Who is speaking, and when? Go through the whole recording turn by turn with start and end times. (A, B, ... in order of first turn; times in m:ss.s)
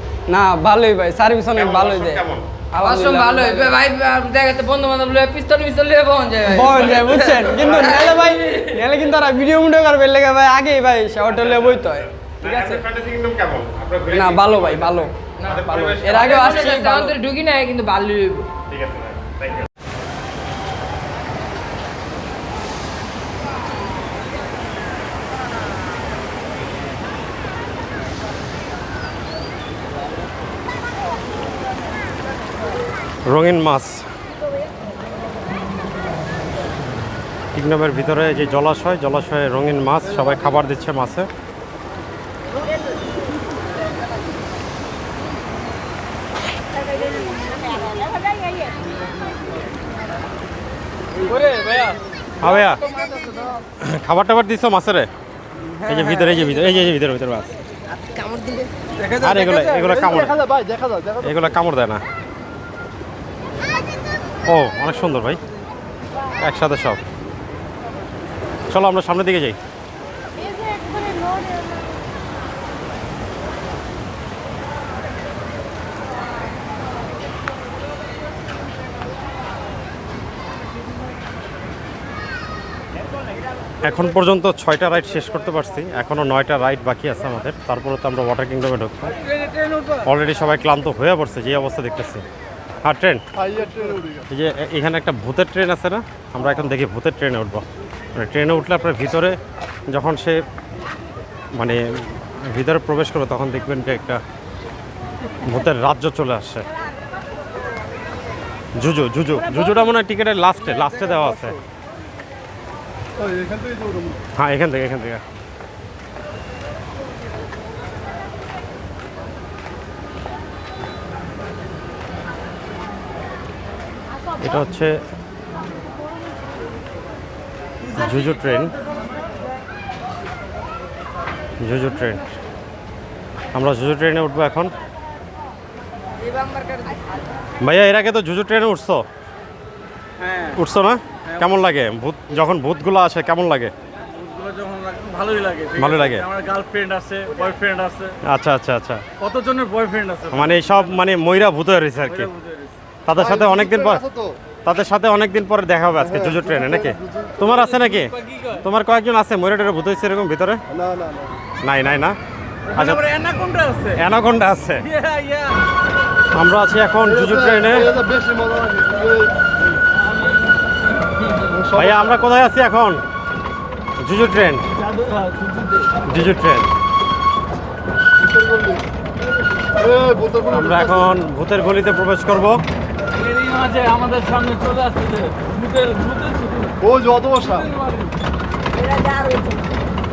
0:00.3-0:03.8 A
0:01.5-0:02.5 B
0:02.8-0:08.8 C
0:06.4-0:12.8 A
0:12.4-0:16.7 B
0:14.1-0:17.2 A
0:15.4-0:18.5 C
0:18.7-0:19.7 B
0:33.3-0:34.1 B
0:37.5-0:41.3 B
0:51.3-0:52.0 D
0:52.4-0:52.8 B
0:52.9-0:53.5 E
0:53.8-0:55.1 B
0:55.7-0:56.4 D
0:55.9-0:57.6 B
0:58.2-0:58.6 C
0:59.0-1:00.0 D
0:59.2-1:00.3 B
0:59.8-1:01.5 E
1:01.2-1:02.0 B
1:04.5-1:05.4 B
1:06.4-1:07.0 B
1:08.7-1:09.6 B
1:23.8-1:29.2 B
1:29.1-1:30.1 D
1:30.0-1:32.2 B
1:32.8-1:33.2 B
1:33.3-1:34.3 E
1:34.3-1:39.4 B
1:39.9-1:40.4 B
1:41.6-1:44.2 B
1:45.4-1:46.7 B
1:48.8-1:51.6 B
1:53.2-1:54.2 E
1:54.4-1:55.2 B
2:04.4-2:05.0 B
2:07.9-2:08.7 B
2:11.6-2:12.3 B
2:13.5-2:14.7 B
2:16.2-2:17.0 C
2:17.6-2:19.1 B
2:20.2-2:20.6 D
2:20.6-2:23.7 B
2:21.2-2:21.6 D
2:24.1-2:28.2 D
2:25.8-2:26.2 B
2:28.2-2:29.0 B
2:29.2-2:30.9 D
2:30.3-2:32.3 B
2:32.0-2:32.8 D
2:33.0-2:34.0 B
2:33.2-2:34.4 E
2:34.7-2:40.6 B
2:36.0-2:37.4 E
2:37.4-2:38.6 D
2:40.7-2:41.4 E
2:41.6-2:42.2 B
2:42.7-2:44.0 D
2:42.8-2:43.0 B
2:44.0-2:44.8 B
2:44.8-2:45.6 D
2:46.4-2:47.9 B
2:47.0-2:49.3 E
2:50.0-2:51.5 D
2:51.5-2:52.2 E
2:51.8-2:53.0 B
2:54.0-2:54.7 B
2:54.7-2:55.9 D
2:56.1-2:56.7 B
2:58.2-2:58.9 E
2:59.8-3:01.1 E
3:00.5-3:02.6 B
3:03.1-3:06.8 D
3:06.8-3:07.7 E
3:07.4-3:08.2 D
3:08.7-3:09.7 C